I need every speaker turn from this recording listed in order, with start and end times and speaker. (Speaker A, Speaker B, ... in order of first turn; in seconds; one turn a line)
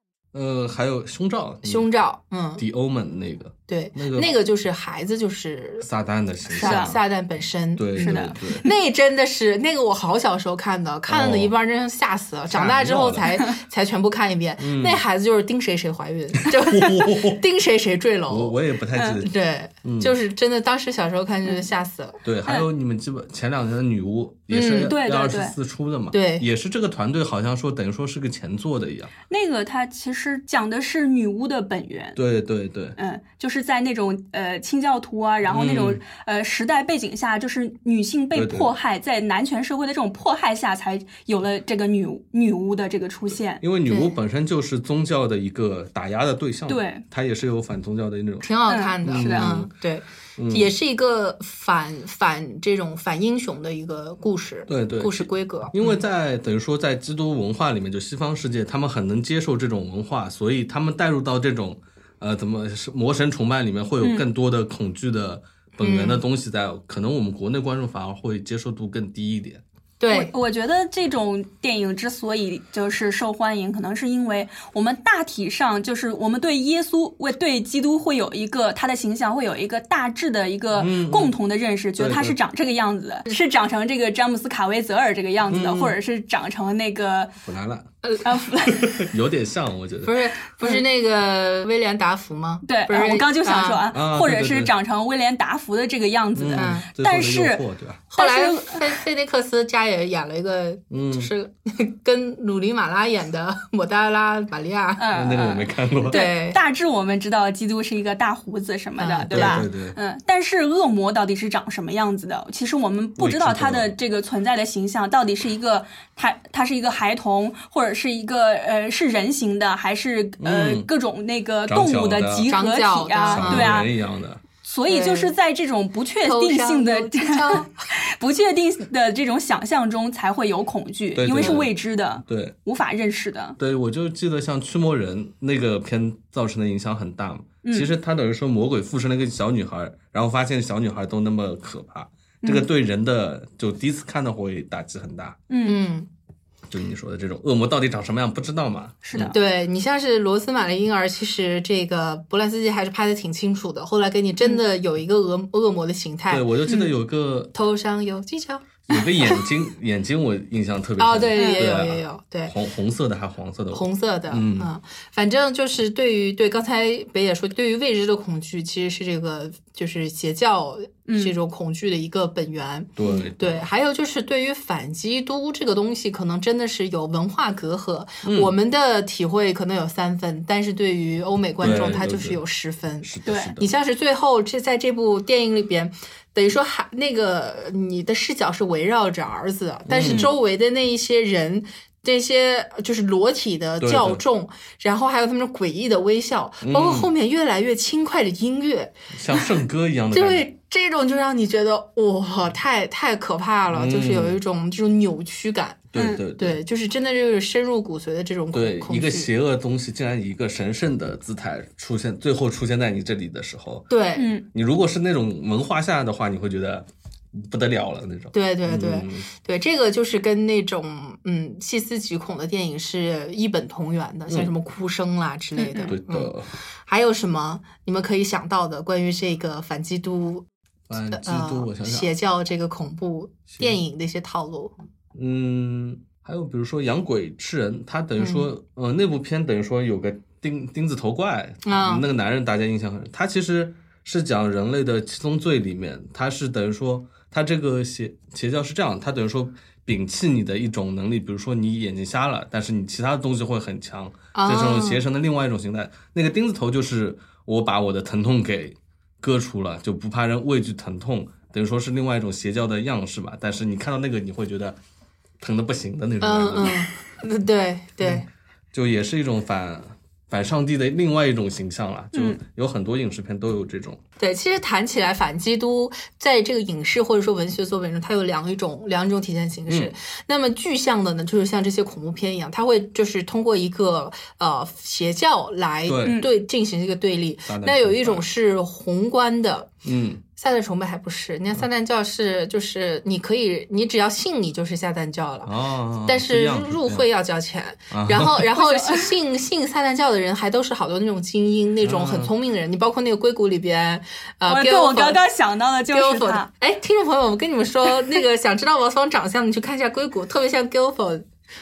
Speaker A: 0.3-1.9
Speaker B: 1.6-2.6
Speaker A: 2.6-4.3
Speaker B: 3.7-5.9
Speaker A: 5.8-7.0
Speaker B: 6.5-18.6
Speaker C: 6.6-7.0
Speaker A: 7.8-8.7
Speaker C: 8.0-8.4
Speaker A: 11.1-11.5
Speaker A: 12.5-13.3
Speaker A: 14.6-15.0
Speaker A: 16.4-17.4
Speaker A: 18.3-19.3
Speaker C: 18.9-19.2
Speaker B: 19.2-22.2
Speaker A: 19.8-20.1
Speaker A: 22.2-29.1
Speaker B: 24.5-24.9
Speaker C: 24.6-25.6
Speaker B: 26.1-26.5
Speaker C: 29.3-32.2
Speaker A: 32.2-33.0
Speaker C: 33.0-43.6
Speaker A: 35.5-36.0
Speaker A: 38.3-38.7
Speaker A: 43.6-48.5
Speaker B: 43.9-44.1
Speaker C: 46.7-47.0
Speaker B: 48.4-56.0
Speaker C: 48.7-49.6
Speaker A: 49.0-49.7
Speaker A: 50.4-50.7
Speaker A: 54.7-69.6
Speaker C: 64.0-64.3
Speaker B: 65.8-66.2
Speaker B: 70.0-70.3
Speaker C: 70.1-87.3
Speaker A: 80.8-81.3
Speaker A: 82.0-82.4
Speaker A: 85.5-86.0
Speaker A: 87.4-87.9
Speaker C: 88.2-89.0
Speaker A: 88.7-90.2
Speaker B: 90.0-93.8
Speaker C: 92.7-97.6
Speaker A: 93.9-94.7
Speaker A: 96.3-98.0
Speaker B: 96.5-96.9
Speaker B: 98.1-105.0
Speaker C: 98.2-99.0
Speaker A: 100.9-101.3
Speaker C: 105.0-123.9
Speaker A: 105.1-106.3
Speaker B: 106.1-106.6
Speaker B: 109.0-109.7
Speaker A: 109.3-110.0
Speaker A: 113.2-113.9
Speaker A: 120.4-120.9
Speaker A: 121.7-122.5
Speaker B: 122.5-123.7
Speaker A: 123.3-124.4
Speaker C: 124.6-133.6
Speaker B: 124.9-125.3
Speaker B: 126.2-127.8
Speaker A: 131.2-131.7
Speaker A: 132.2-132.6
Speaker A: 133.6-145.4
Speaker C: 137.6-137.9
Speaker C: 145.5-145.8
Speaker B: 145.7-146.1
Speaker A: 146.7-149.3
Speaker C: 149.0-149.4
Speaker B: 149.3-156.5
Speaker A: 156.3-157.5
Speaker B: 157.5-159.4
Speaker A: 158.9-164.7
Speaker B: 161.0-162.6
Speaker C: 161.4-161.7
Speaker B: 163.7-199.5
Speaker C: 171.1-171.3
Speaker A: 173.0-173.7
Speaker A: 178.2-178.5
Speaker A: 181.6-182.4
Speaker A: 183.0-183.7
Speaker C: 183.3-183.5
Speaker A: 189.9-190.3
Speaker A: 193.8-194.2
Speaker A: 196.6-197.1
Speaker A: 199.1-200.5
Speaker B: 200.1-209.3
Speaker A: 203.7-204.4
Speaker A: 205.9-206.6
Speaker C: 206.0-206.2
Speaker A: 208.5-213.9
Speaker B: 213.9-214.4
Speaker C: 214.2-214.4
Speaker A: 214.5-219.3
Speaker B: 218.3-226.3
Speaker C: 225.6-225.9
Speaker A: 225.9-226.5
Speaker B: 226.9-230.4
Speaker A: 230.9-232.1
Speaker B: 231.1-234.8
Speaker A: 233.5-233.8
Speaker A: 235.1-264.8
Speaker B: 238.2-238.5
Speaker B: 241.6-242.1
Speaker B: 254.3-255.0
Speaker A: 265.4-266.9
Speaker B: 266.2-268.2
Speaker A: 268.0-274.0
Speaker C: 272.1-272.4
Speaker B: 274.2-289.7
Speaker A: 285.9-286.2
Speaker A: 287.5-288.2
Speaker A: 289.8-290.2
Speaker B: 290.4-295.5
Speaker A: 295.4-297.1
Speaker B: 296.0-305.2
Speaker A: 297.9-298.5
Speaker C: 298.5-299.1
Speaker A: 301.8-302.3
Speaker C: 304.5-306.5
Speaker B: 305.9-311.3